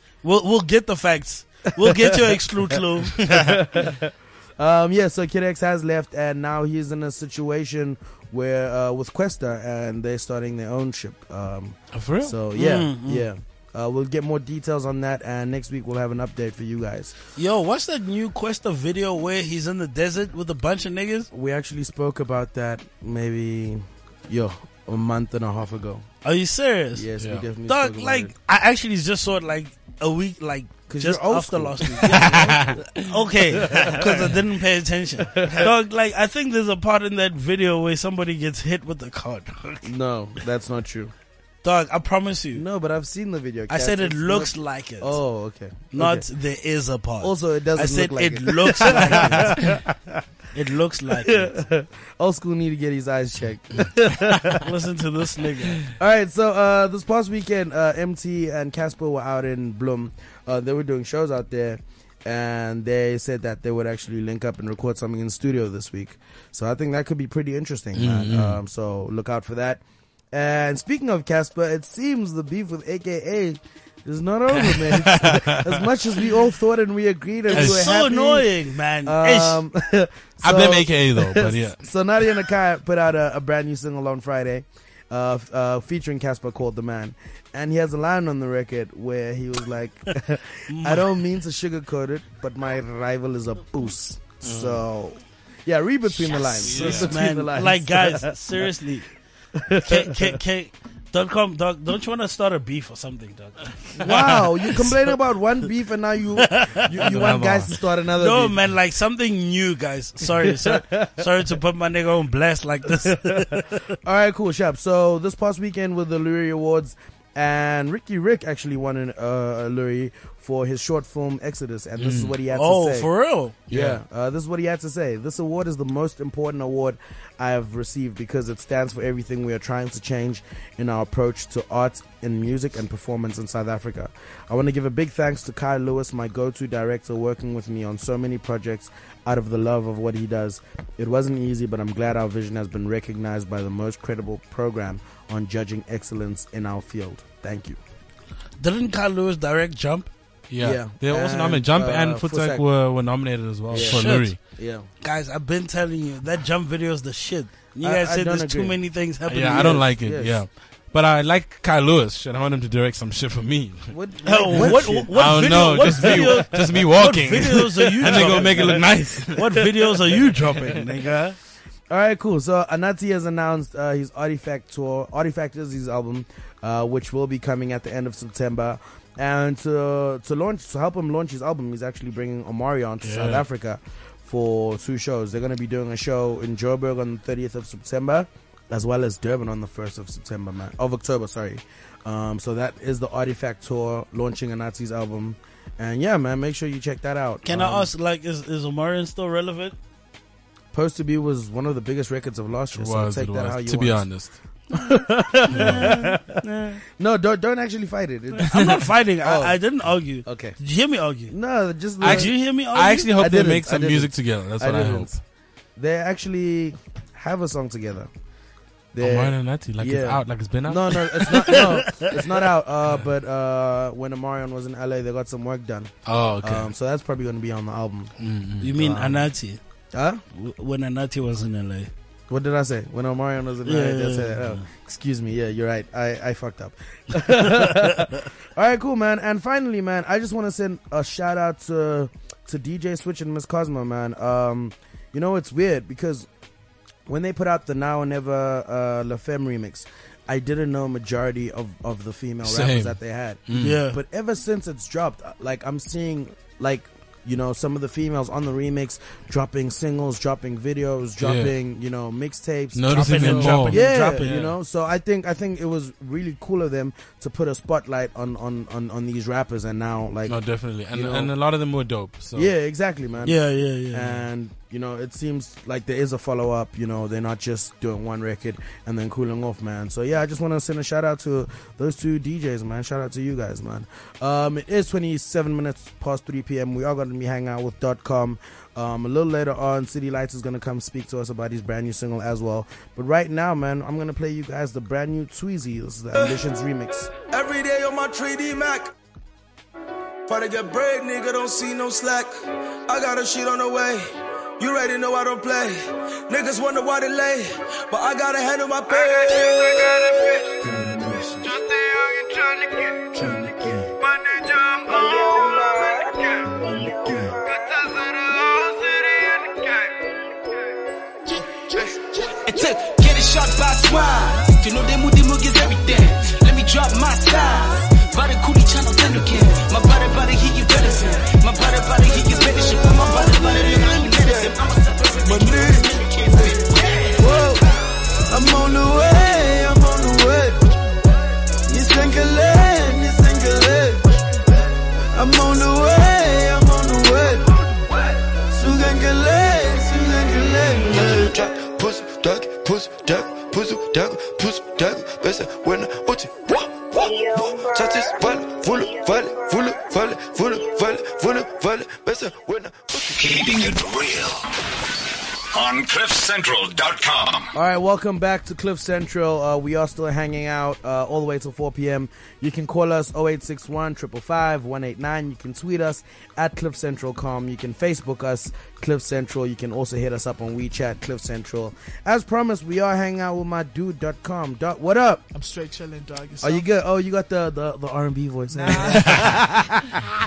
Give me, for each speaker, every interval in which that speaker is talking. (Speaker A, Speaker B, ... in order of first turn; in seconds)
Speaker A: 0.2-3.6, 12.5-13.2, 17.4-21.3, 26.2-27.1, 27.7-39.8, 41.6-42.6, 43.7-45.2, 45.9-49.8, 50.5-51.5, 54.5-55.8, 77.5-79.6, 90.7-91.1, 96.6-99.1, 99.8-104.9, 106.4-106.9, 108.2-113.9, 122.5-123.5, 148.6-150.1, 153.7-154.3, 155.0-159.8, 164.2-171.4, 197.4-199.8, 205.4-206.8, 208.4-211.3, 212.0-213.1, 221.3-222.1, 228.6-229.6, 230.3-231.9, 233.6-234.6, 237.3-237.9, 253.5-254.0, 262.9-264.5, 273.2-274.2, 313.2-313.9
Speaker B: 1.8-2.2, 3.1-17.1, 21.3-26.1, 26.9-28.3, 30.9-34.3, 35.2-35.7, 39.8-41.1, 42.5-46.3, 47.2-50.2, 51.1-54.7, 55.8-78.5, 79.0-98.4, 99.5-100.4, 104.0-108.6, 110.3-111.3, 112.9-123.1, 123.7-147.8, 150.6-152.6, 153.7-154.9, 157.8-158.8, 159.5-160.4, 163.9-166.7, 168.0-169.0, 171.9-197.9, 200.7-204.1, 204.7-206.4, 207.0-209.6, 210.2-210.6, 211.3-212.3, 213.1-215.1, 215.8-218.1, 218.9-228.1, 228.7-229.3, 229.9-230.2, 232.3-246.3, 247.1-270.4, 270.9-271.3, 272.3-298.7, 300.5-301.0, 304.6-305.3, 306.3-306.9, 310.6-311.5, 313.2-313.6, 337.2-337.6, 367.5-385.2, 386.4-390.0
Speaker C: 11.9-12.3, 27.2-27.4, 32.1-32.8, 67.9-68.6, 74.5-75.8, 77.5-77.9, 80.4-81.8, 94.4-94.8, 96.6-97.1, 104.0-104.4, 107.0-107.7, 122.0-122.3, 123.7-124.0, 150.5-154.4, 159.3-163.9, 164.5-169.4, 183.0-183.4, 202.7-204.3, 205.5-205.9, 212.0-215.2, 219.0-221.6, 226.1-226.7, 228.2-228.7, 252.4-252.9, 253.5-253.8, 261.2-261.5, 262.7-264.5, 270.3-272.5
Speaker D: 297.4-298.8, 300.3-302.2, 303.0-303.9, 304.6-305.7, 306.3-308.8, 312.1-312.5, 346.6-347.0
Speaker E: 309.1-309.6, 333.1-334.5, 345.4-345.7, 348.7-349.5, 350.5-363.2
Speaker F: 321.3-337.6
Speaker G: 363.1-364.6, 365.5-367.5
Speaker H: 385.3-386.6, 388.5-389.6